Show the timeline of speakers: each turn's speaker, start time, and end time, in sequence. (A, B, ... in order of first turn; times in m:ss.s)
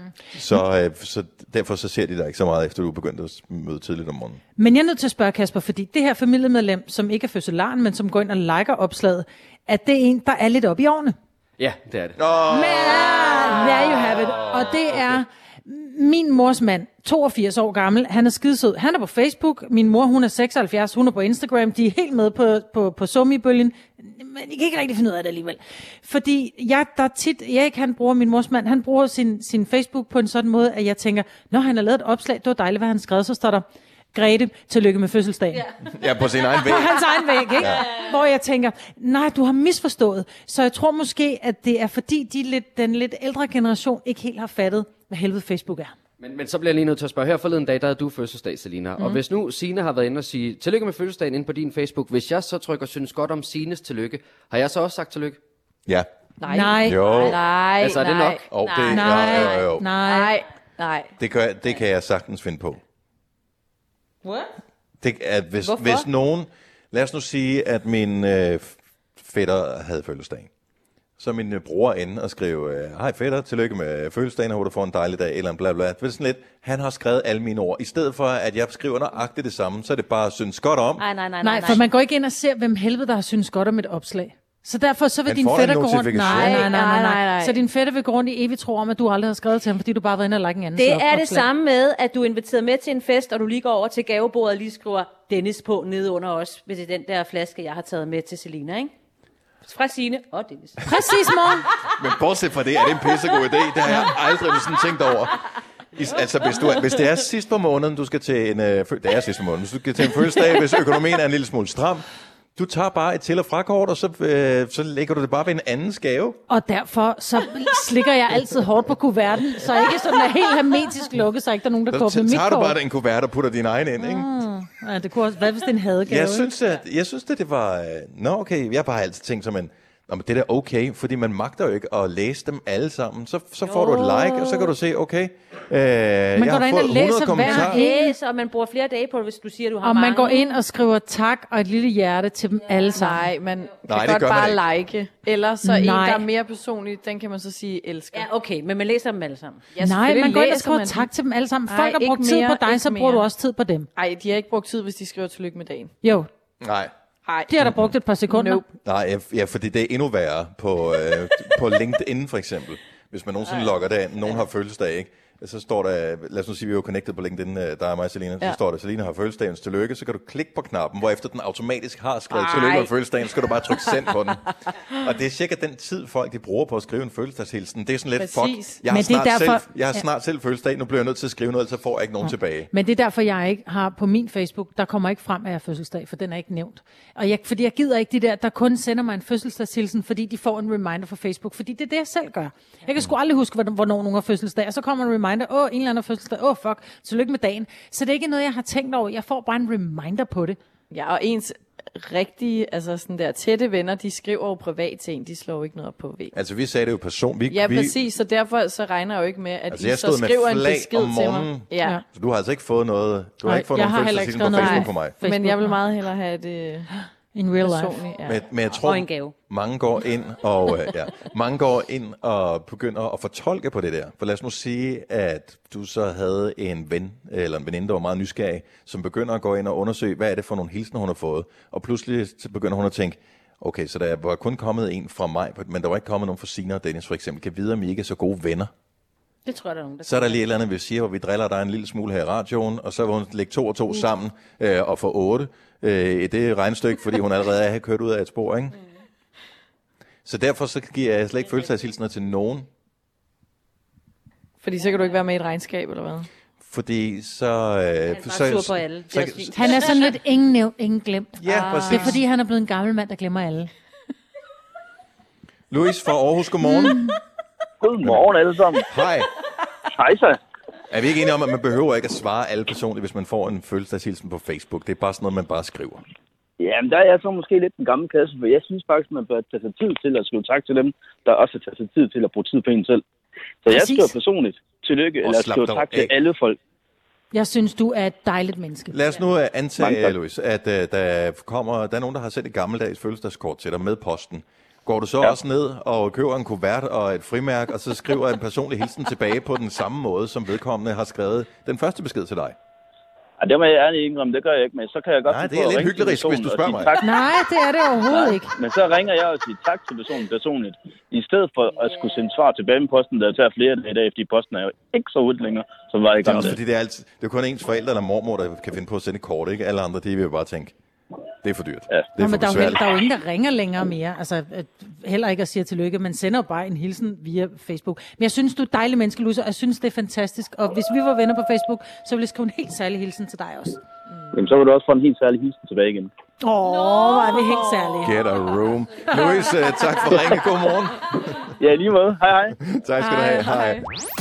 0:00.3-0:04.4 A
0:04.6-0:11.1 B
0:11.6-0:12.2 C
0:12.2-0:14.7 A
0:12.4-0:35.7 B
0:35.9-0:37.8 A
0:36.5-0:45.9 B
0:46.2-0:55.4 C
0:56.4-0:58.5 D
0:56.5-0:57.2 B
0:56.8-0:57.4 A
0:57.8-0:58.4 C
0:58.5-0:59.9 A
0:58.6-0:59.6 E
0:58.9-1:00.3 B
0:59.9-1:01.1 D
1:01.2-1:02.8 A
1:04.2-1:04.5 E
1:05.0-1:10.5 A
1:05.6-1:06.0 D
1:11.2-1:21.0 A
1:21.0-1:21.8 E
1:21.4-1:31.5 B
1:25.2-1:26.7 A
1:26.2-1:27.6 D
1:30.7-1:38.9 E
1:39.6-1:40.9 E
1:40.8-1:41.7 B
1:42.0-1:52.0 A
1:52.6-1:56.4 A
1:56.5-2:02.8 B
2:01.9-2:04.3 A
2:04.0-2:06.5 B
2:06.0-2:17.9 A
2:16.4-2:18.1 B
2:17.4-2:20.6 E
2:19.8-2:23.3 B
2:23.0-2:28.3 D
2:23.8-2:24.6 A
2:25.6-2:26.2 B
2:28.1-2:29.6 E
2:29.7-2:31.1 D
2:29.8-2:33.9 B
2:31.7-2:33.3 D
2:33.9-2:35.9 D
2:36.0-2:36.3 B
2:36.6-2:36.9 A
2:37.2-2:37.6 D
2:37.5-2:38.6 B
2:37.6-2:37.9 A
2:38.2-2:38.7 D
2:38.8-3:02.7 A
2:52.3-2:52.9 D
2:58.2-2:58.8 D
2:58.9-3:00.0 B
3:02.2-3:20.6 B
3:20.9-3:26.3 D
3:26.3-3:28.0 A
3:27.5-3:32.0 D
3:29.7-3:35.2 A
3:33.4-3:35.8 B
3:34.5-3:36.9 D
3:36.9-3:38.0 B
3:37.6-3:38.4 D
3:38.2-3:58.7 A
3:38.8-3:39.3 E
3:59.4-4:00.5 E
4:00.0-4:08.8 A
4:10.2-4:12.7 A
4:14.6-4:16.3 D
4:16.6-4:19.7 A
4:18.1-4:20.1 E
4:19.5-4:23.7 B
4:21.4-4:22.2 A
4:21.5-4:22.1 D
4:21.6-4:21.9 E
4:25.7-4:27.0 A
4:27.8-4:28.8 F
4:28.0-4:28.3 A
4:28.8-4:29.3 A
4:29.9-4:30.4 F
4:30.9-4:36.0 A
4:36.6-4:43.0 F
4:43.6-4:46.6 F
4:43.7-4:44.1 B
4:45.2-4:46.1 A
4:47.3-4:49.0 B
4:48.9-5:02.6 A
4:49.8-4:50.1 F
5:03.4-5:07.2 F
5:05.2-5:07.0 A
5:07.0-5:08.5 B
5:08.0-5:16.6 F
5:11.7-5:12.2 E
5:16.2-5:20.7 A
5:21.4-5:22.8 A
5:22.2-5:33.8 B
5:34.3-5:36.1 F
5:36.4-5:38.1 B
5:36.9-5:37.6 E
5:38.0-5:41.5 A
5:41.6-5:42.6 F
5:42.6-5:43.8 A
5:43.0-5:43.8 D